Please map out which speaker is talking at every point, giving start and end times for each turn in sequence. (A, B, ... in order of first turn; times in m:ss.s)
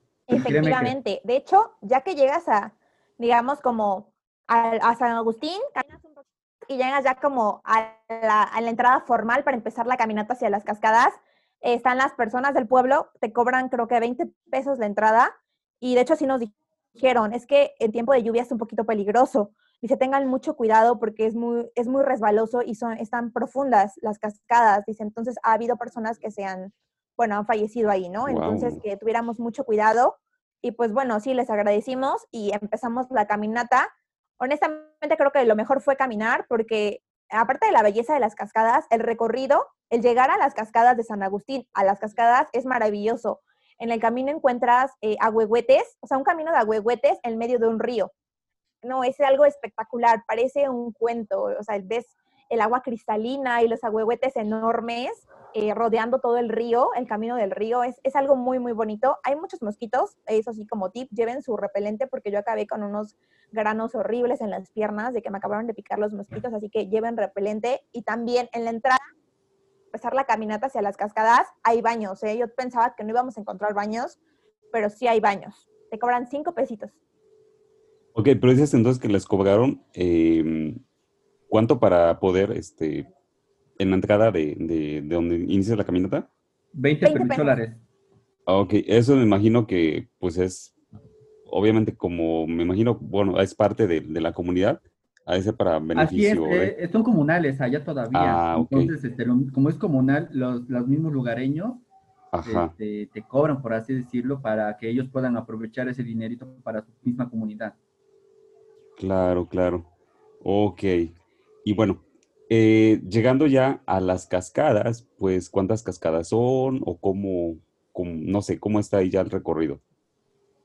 0:00.3-0:48.1 A
0:00.4-0:00.9 B
0:28.2-0:28.8 C
0:48.8-1:09.0 A
1:09.9-1:14.2 A
1:14.7-1:16.9 A
1:18.1-1:20.8 C
1:21.5-1:23.1 C
1:23.8-1:26.3 C
1:26.7-1:27.8 B
1:27.0-1:27.6 A
1:28.5-1:30.7 C
1:31.5-1:36.7 C
1:35.9-1:41.8 B
1:38.1-1:38.9 C
1:42.3-1:42.7 C
1:42.4-1:47.8 B
1:49.0-1:49.9 C
1:50.4-1:51.1 C
1:51.6-1:59.8 C